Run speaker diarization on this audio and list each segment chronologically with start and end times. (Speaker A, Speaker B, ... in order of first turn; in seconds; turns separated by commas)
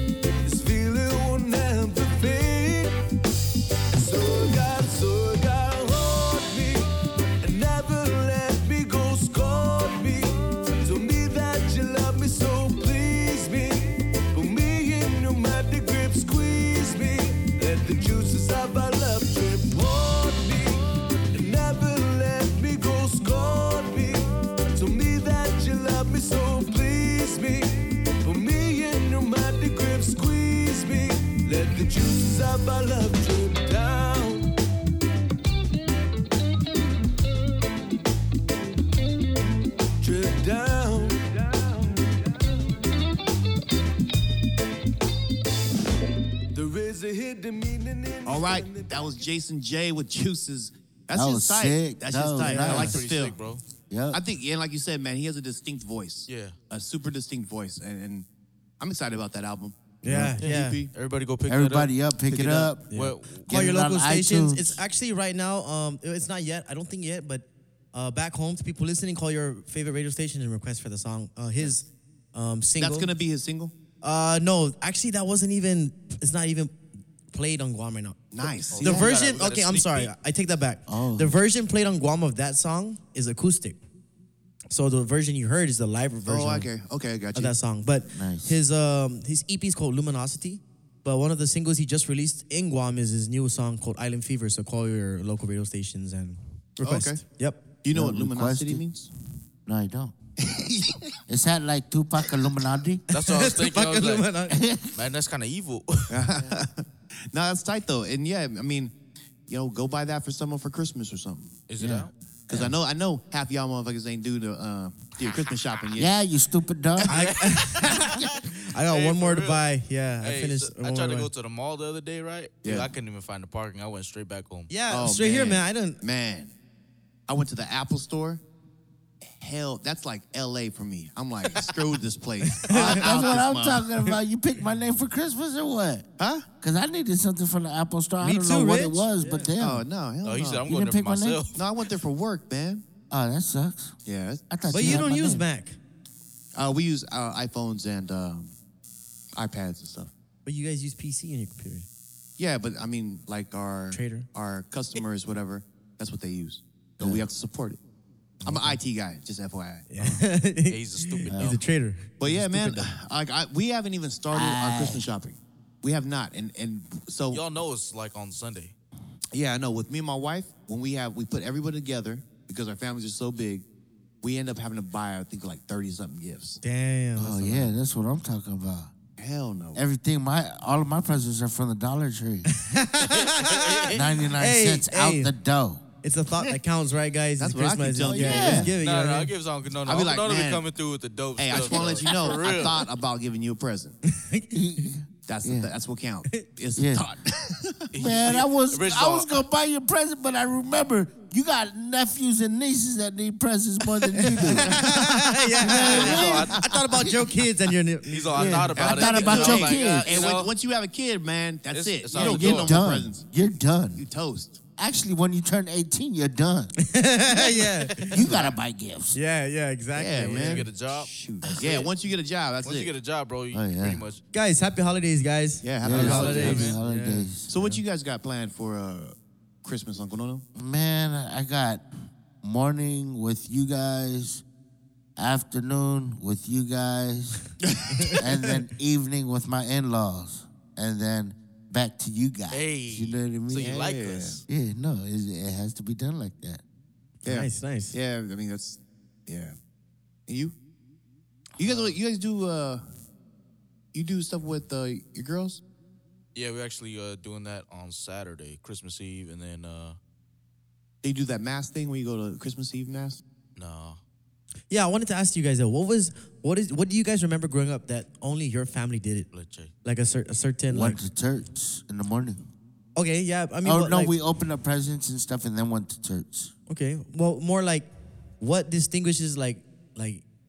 Speaker A: 0.4-3.0, Speaker A: 3.9-6.9, Speaker A: 7.4-34.5, Speaker A: 40.0-42.2, Speaker A: 46.5-49.1, Speaker B: 48.2-53.4, Speaker C: 51.1-53.0, Speaker D: 52.4-53.0, Speaker E: 52.6-53.6, Speaker C: 53.9-54.2, Speaker B: 54.1-58.3, Speaker E: 56.3-56.5, Speaker B: 58.8-59.8, Speaker D: 60.0-60.8, Speaker C: 60.0-60.4, Speaker B: 60.3-60.9, Speaker E: 60.4-61.9, Speaker C: 61.5-62.9, Speaker B: 62.3-62.7, Speaker E: 62.9-63.5, Speaker D: 62.9-73.1, Speaker C: 63.4-64.8, Speaker B: 72.8-73.7, Speaker D: 74.0-76.8, Speaker D: 77.3-83.8, Speaker B: 78.3-79.1, Speaker E: 78.7-80.1, Speaker C: 80.9-81.3, Speaker D: 84.7-86.7, Speaker B: 86.2-87.5, Speaker D: 87.3-97.6, Speaker C: 88.1-88.5, Speaker B: 96.8-97.2, Speaker B: 97.8-99.1, Speaker C: 97.9-98.8, Speaker C: 99.7-100.1, Speaker B: 100.4-101.1, Speaker C: 101.3-103.0, Speaker E: 103.1-104.3, Speaker D: 103.2-104.6, Speaker C: 104.5-105.0, Speaker E: 104.9-106.3, Speaker B: 106.1-111.6, Speaker E: 111.7-112.1, Speaker C: 111.8-112.7, Speaker B: 112.5-116.1, Speaker C: 116.0-117.2, Speaker D: 117.1-121.3, Speaker E: 117.1-118.2, Speaker E: 118.8-119.6, Speaker E: 120.2-124.7, Speaker B: 122.6-122.9, Speaker D: 124.7-126.0, Speaker B: 124.9-126.5, Speaker B: 127.3-128.4, Speaker B: 129.2-134.0, Speaker D: 132.5-133.2, Speaker C: 132.7-136.0, Speaker B: 136.2-136.4, Speaker C: 136.6-139.8, Speaker D: 138.2-139.5, Speaker B: 139.6-140.7, Speaker E: 140.2-141.6, Speaker C: 140.7-141.4, Speaker B: 141.5-142.8, Speaker C: 143.1-144.0, Speaker B: 144.0-145.1, Speaker C: 144.5-145.4, Speaker D: 144.7-145.8, Speaker B: 146.5-148.5, Speaker B: 149.3-150.1, Speaker D: 150.4-151.8, Speaker B: 152.4-157.8, Speaker D: 153.9-154.3, Speaker C: 157.0-157.3, Speaker D: 158.4-158.8, Speaker B: 158.4-160.2, Speaker D: 159.9-162.9, Speaker E: 160.7-161.6, Speaker B: 162.2-167.4, Speaker C: 164.3-165.0, Speaker E: 167.3-168.7, Speaker B: 169.3-173.7, Speaker B: 174.2-176.6, Speaker D: 176.6-177.7, Speaker C: 177.2-178.9, Speaker B: 179.2-179.8, Speaker C: 179.7-182.5, Speaker D: 182.5-185.3, Speaker E: 183.1-184.0, Speaker C: 183.9-185.8, Speaker D: 186.0-189.3, Speaker B: 187.4-188.7, Speaker C: 188.0-188.7, Speaker E: 188.4-192.9, Speaker B: 189.8-190.6, Speaker B: 191.4-194.0, Speaker D: 194.1-194.8, Speaker C: 194.5-195.7, Speaker B: 195.2-197.9, Speaker C: 196.8-197.0, Speaker E: 197.9-199.3, Speaker C: 197.9-204.8, Speaker D: 204.2-209.0, Speaker B: 204.6-205.3, Speaker C: 205.6-206.5, Speaker E: 205.7-206.7, Speaker B: 205.8-206.8, Speaker E: 208.1-210.5, Speaker C: 208.3-210.1, Speaker B: 208.8-213.2, Speaker E: 211.7-212.8, Speaker C: 212.1-214.0, Speaker B: 213.9-214.6, Speaker C: 214.8-216.7, Speaker D: 216.8-218.2, Speaker C: 218.1-219.2, Speaker B: 218.2-218.5, Speaker D: 219.1-220.7, Speaker B: 219.9-222.9, Speaker E: 220.2-221.9, Speaker E: 222.6-224.2, Speaker C: 223.5-224.0, Speaker D: 224.3-227.8, Speaker B: 225.6-226.8, Speaker C: 225.8-227.5, Speaker E: 225.9-226.8, Speaker B: 227.5-230.4, Speaker C: 230.5-231.8, Speaker C: 232.4-234.4, Speaker C: 235.2-237.5, Speaker B: 237.8-238.2, Speaker D: 237.9-238.5, Speaker C: 238.2-243.9, Speaker E: 242.5-244.4, Speaker B: 243.6-244.4, Speaker C: 244.5-246.6, Speaker D: 247.2-247.9, Speaker B: 247.2-249.6, Speaker B: 250.3-250.5, Speaker E: 251.6-252.0, Speaker B: 251.6-252.8, Speaker B: 253.9-255.6, Speaker E: 256.3-260.0, Speaker B: 261.0-263.2, Speaker E: 263.6-264.0, Speaker D: 264.7-269.3, Speaker E: 269.3-269.7, Speaker D: 269.8-271.0, Speaker C: 270.7-272.4, Speaker D: 272.9-274.1, Speaker C: 273.6-276.5, Speaker D: 276.7-277.9, Speaker D: 278.4-280.2